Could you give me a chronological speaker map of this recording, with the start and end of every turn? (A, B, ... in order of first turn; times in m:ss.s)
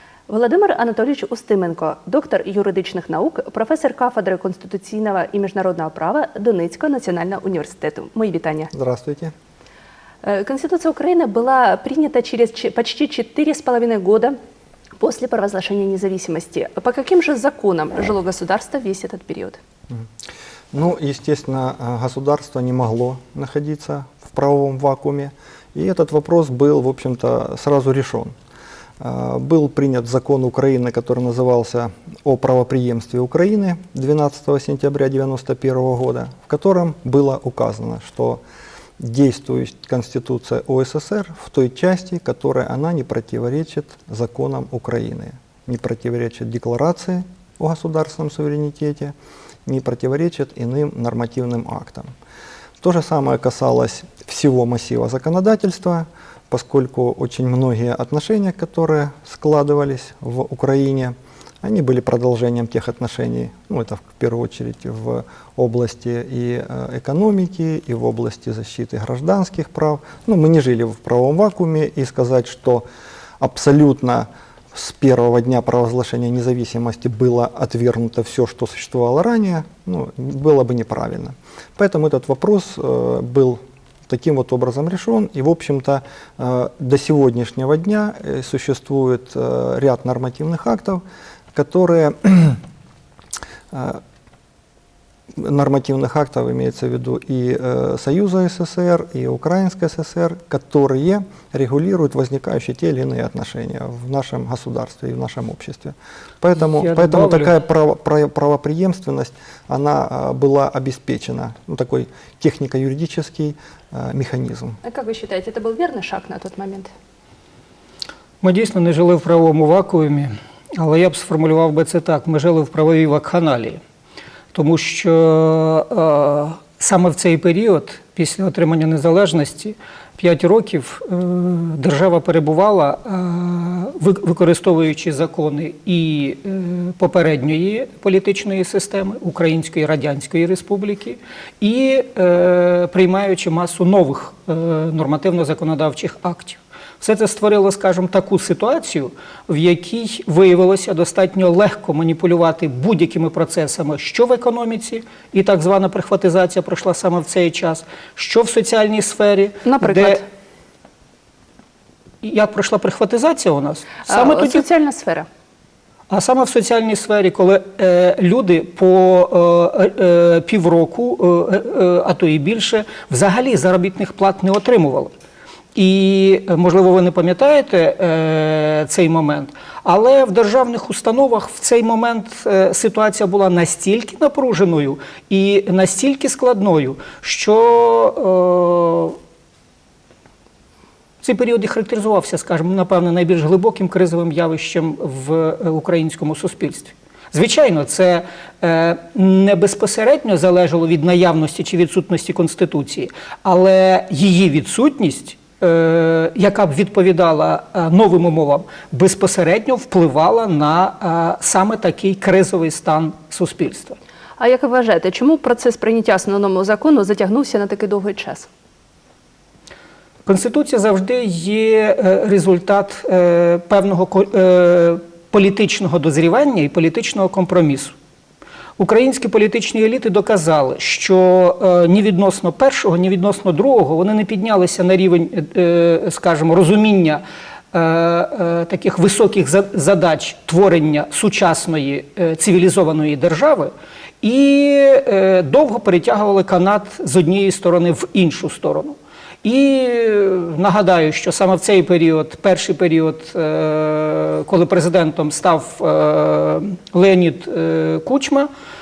0:00.3-0:08.7 A
0:08.7-0:09.3 B
0:10.2-0:14.4 A
0:15.0-0:19.6 A
0:20.7-0:28.3 B
0:29.0-0:38.4 B
0:39.0-0:49.1 B
0:49.6-0:52.1 B
0:52.8-1:12.8 B
1:13.4-1:31.0 B
1:31.5-1:32.6 B
1:33.7-1:34.0 B
1:35.4-1:54.8 B
1:46.6-1:47.5 C
1:54.8-1:56.9 A
1:58.4-2:03.8 C
2:04.5-2:40.2 C
2:39.6-2:40.2 A
2:42.2-2:44.6 C
2:44.1-2:45.3 A
2:46.1-2:55.1 C
2:55.7-3:09.2 C
3:11.2-3:34.0 C
3:34.4-3:38.5 A
3:40.2-3:47.9 C
3:48.8-4:18.5 C